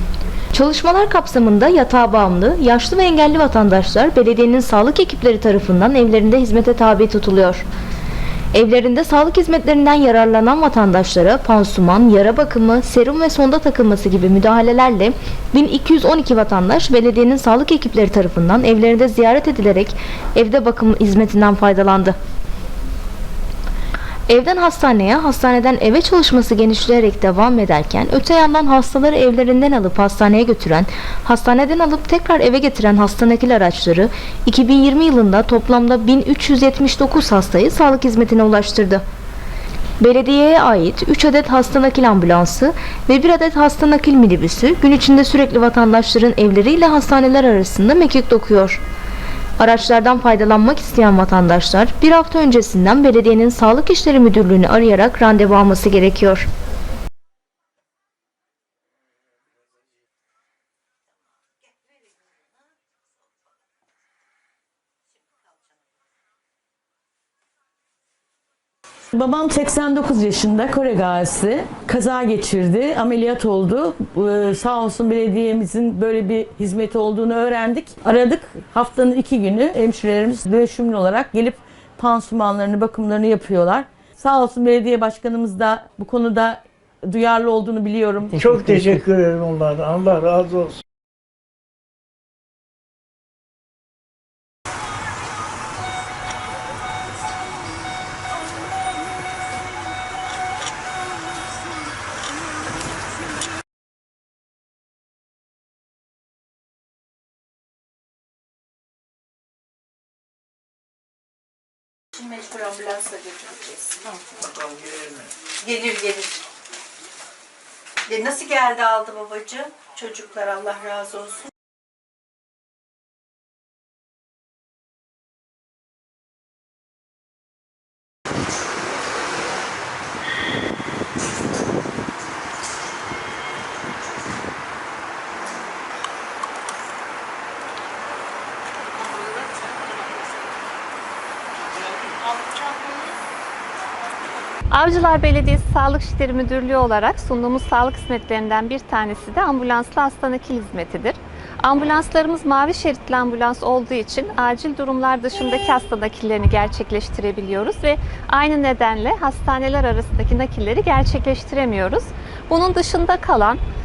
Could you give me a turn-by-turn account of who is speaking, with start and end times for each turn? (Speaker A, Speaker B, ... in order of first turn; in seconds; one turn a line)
Speaker A: 0.5-7.6
Speaker A: 8.5-22.1
Speaker A: 24.3-39.0
Speaker A: 40.0-48.8
Speaker A: 49.6-56.5
Speaker B: 69.1-89.0
Speaker C: 88.3-90.8
Speaker D: 112.1-114.2
Speaker C: 114.4-115.3
Speaker D: 115.5-116.5
Speaker D: 118.1-121.5
Speaker E: 144.7-163.6